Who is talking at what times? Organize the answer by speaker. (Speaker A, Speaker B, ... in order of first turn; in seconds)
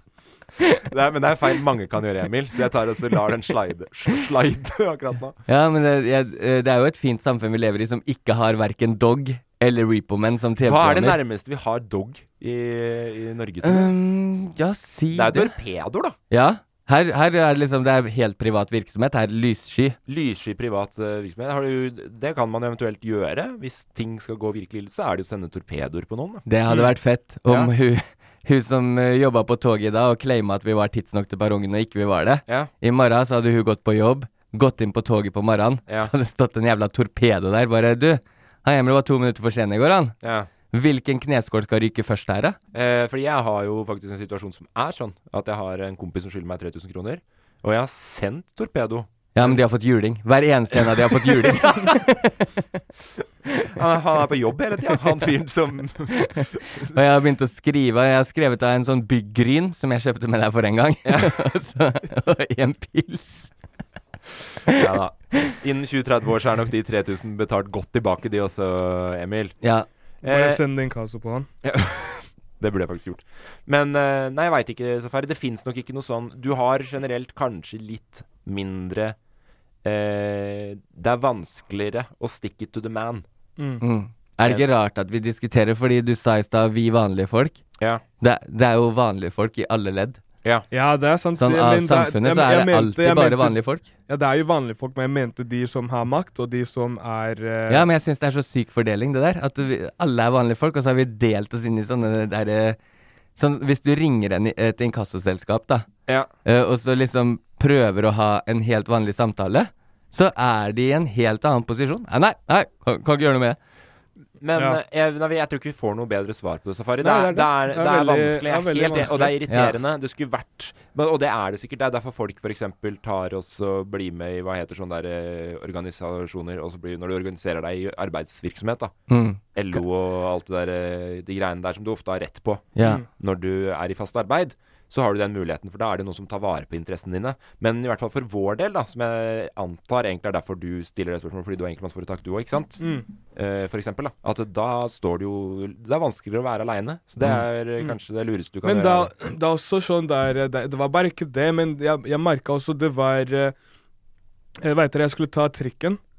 Speaker A: 0.9-5.3, 10.6-13.9, 15.1-16.1, 20.1-26.4, 27.5-27.7, 40.2-40.5, 42.7-49.6, 50.7-52.0, 53.7-57.0, 61.0-61.3, 64.7-69.5, 70.2-70.6, 71.6-79.2, 79.8-83.2, 114.4-128.9, 129.5-142.8, 143.3-149.1
Speaker B: 5.5-11.2, 13.6-15.5, 16.3-20.0, 26.4-40.1, 40.7-42.6, 49.3-52.5, 56.1-63.5, 69.6-69.9, 83.8-87.6, 88.2-90.2, 91.4-93.9, 97.7-102.8, 103.4-105.9, 106.4-113.6, 119.5-119.8, 129.1-129.8, 132.8-133.0
Speaker C: 70.2-71.5, 83.6-83.8, 90.7-97.9, 114.5-114.8, 117.0-119.3, 142.8-143.1, 148.6-153.5, 154.6-156.0